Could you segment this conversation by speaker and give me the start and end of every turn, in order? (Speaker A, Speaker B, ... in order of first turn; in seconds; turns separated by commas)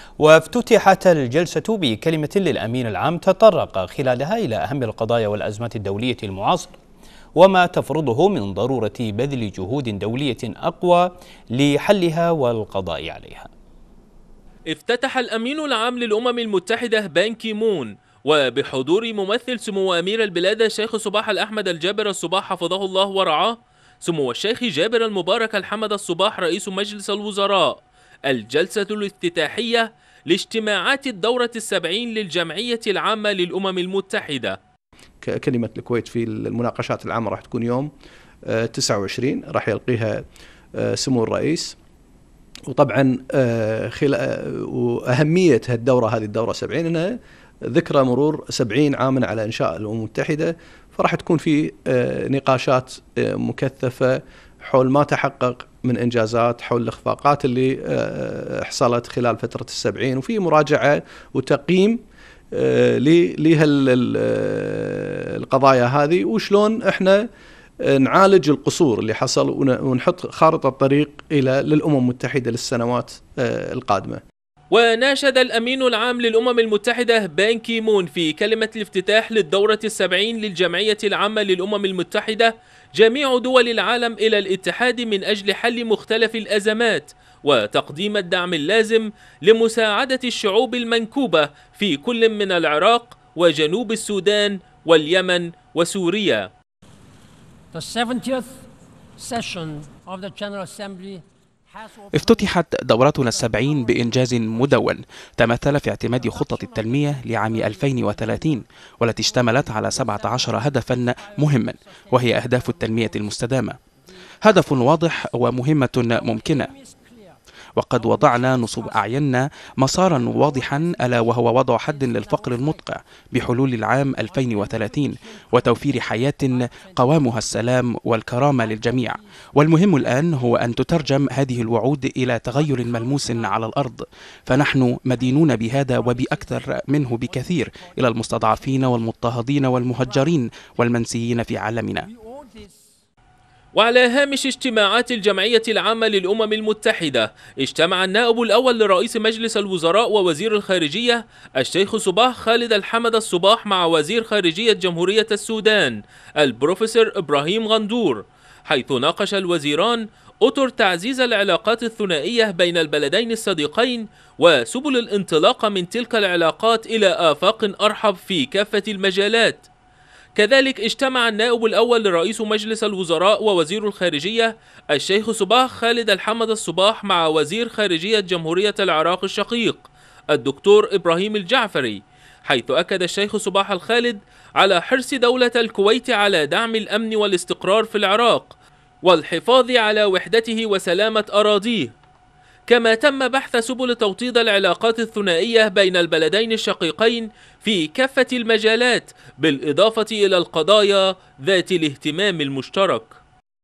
Speaker A: 0.2-6.8, Speaker A: 7.3-13.5, Speaker B: 14.7-34.6, Speaker C: 35.2-37.9, Speaker C: 38.5-40.2, Speaker C: 40.8-41.8, Speaker C: 42.7-47.1, Speaker C: 47.7-62.0, Speaker C: 62.5-67.2, Speaker C: 67.8-74.2, Speaker B: 74.7-96.5, Speaker D: 97.7-98.6, Speaker D: 99.2-102.5, Speaker E: 102.1-113.8, Speaker D: 103.2-104.9, Speaker D: 106.1-113.4, Speaker D: 114.0-115.6, Speaker E: 114.4-116.7, Speaker D: 116.1-117.4, Speaker E: 117.8-142.1, Speaker D: 117.9-119.3, Speaker D: 119.9-122.9, Speaker D: 124.1-131.7, Speaker D: 132.5-133.8, Speaker D: 134.5-140.9, Speaker D: 142.0-142.9, Speaker B: 143.7-169.7, Speaker B: 170.3-191.9, Speaker B: 192.7-203.2